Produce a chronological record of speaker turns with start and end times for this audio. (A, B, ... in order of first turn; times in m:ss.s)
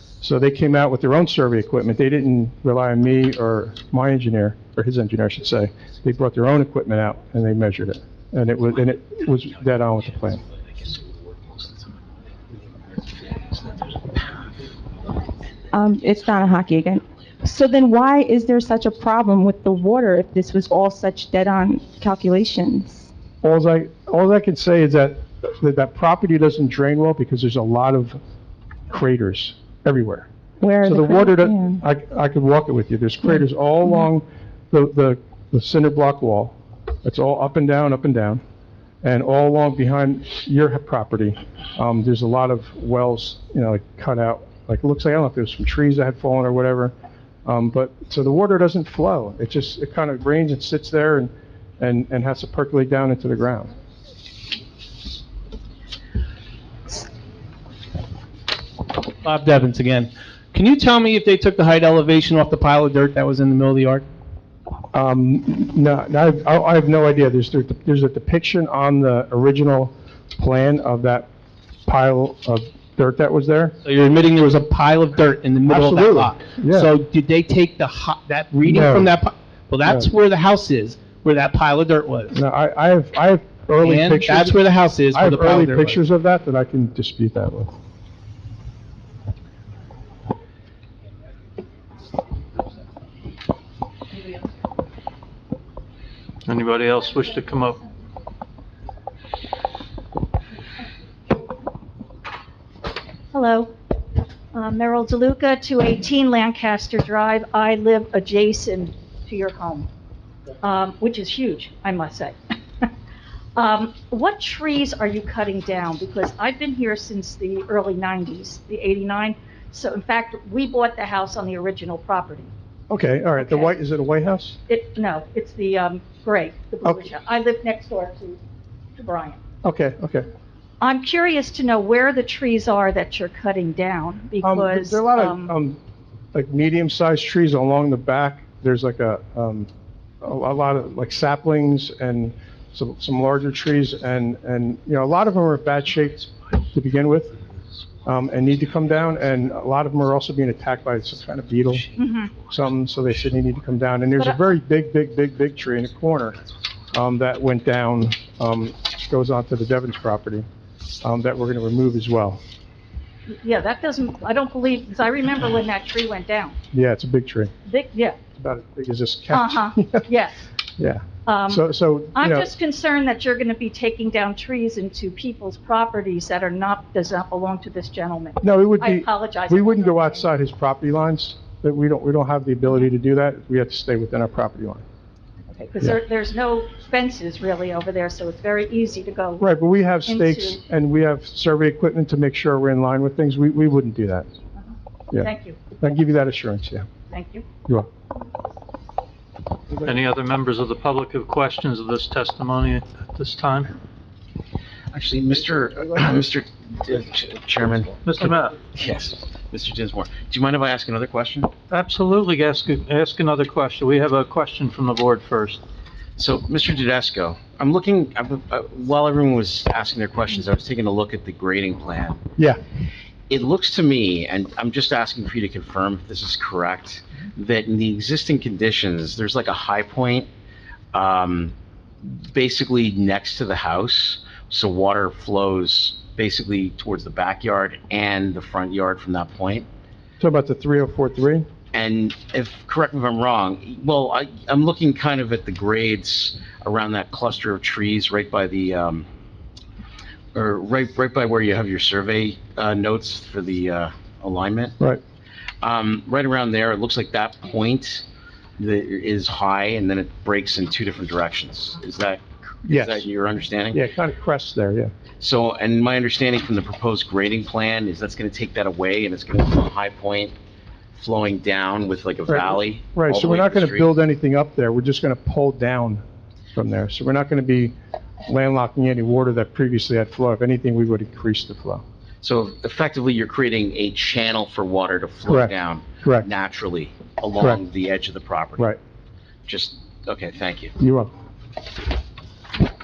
0:00.2-0:10.4 A
0:10.8-0:11.9 B
0:12.9-0:14.5 B
0:15.7-0:23.1 C
0:23.4-0:28.2 A
0:28.9-0:30.3 A
0:30.6-0:31.8 C
0:30.8-0:38.4 A
0:39.0-0:46.9 A
0:47.4-0:53.7 A
0:59.2-1:04.1 D
1:04.9-1:11.3 A
1:11.9-1:13.8 A
1:13.8-1:22.4 D
1:15.7-1:16.9 A
1:18.6-1:19.1 A
1:22.3-1:27.7 A
1:23.8-1:26.0 D
1:36.5-1:37.8 E
1:43.3-1:43.7 F
1:44.5-1:49.9 F
1:50.6-1:52.9 F
1:53.6-2:02.5 F
2:02.9-2:04.6 A
2:03.4-2:03.8 F
2:04.7-2:08.4 F
2:09.0-2:09.4 F
2:09.6-2:10.3 A
2:10.8-2:15.5 F
2:14.4-2:15.8 A
2:16.3-2:19.7 A
2:20.2-2:27.3 A
2:28.1-2:31.9 A
2:32.0-2:32.3 F
2:32.5-2:36.4 A
2:36.9-2:40.5 A
2:41.0-2:42.4 A
2:43.3-2:46.6 F
2:46.7-2:47.5 A
2:47.7-2:48.2 F
2:48.4-2:50.1 A
2:49.3-2:50.4 F
2:50.8-2:52.5 A
2:51.3-3:00.3 F
2:58.4-3:04.8 A
3:05.5-3:09.5 F
3:09.4-3:14.3 A
3:10.1-3:10.6 F
3:15.1-3:16.9 A
3:15.2-3:15.6 F
3:17.1-3:17.5 F
3:19.8-3:23.8 E
3:24.9-3:31.5 B
3:28.0-3:28.6 E
3:31.7-3:35.6 E
3:36.2-3:42.2 B
3:43.3-3:50.3 B
3:50.9-3:59.7 B
4:00.2-4:01.5 A
4:01.7-4:09.1 B
4:10.3-4:14.8 B
4:15.6-4:18.0 B
4:18.6-4:23.8 B
4:22.7-4:23.1 A
4:23.7-4:24.9 A
4:25.2-4:30.3 B
4:30.9-4:33.9 B
4:32.3-4:36.0 A
4:36.6-4:37.8 A
4:38.3-4:41.8 A
4:42.2-4:48.7 B
4:45.3-4:46.3 A
4:49.5-4:50.7 B
4:50.8-4:51.1 A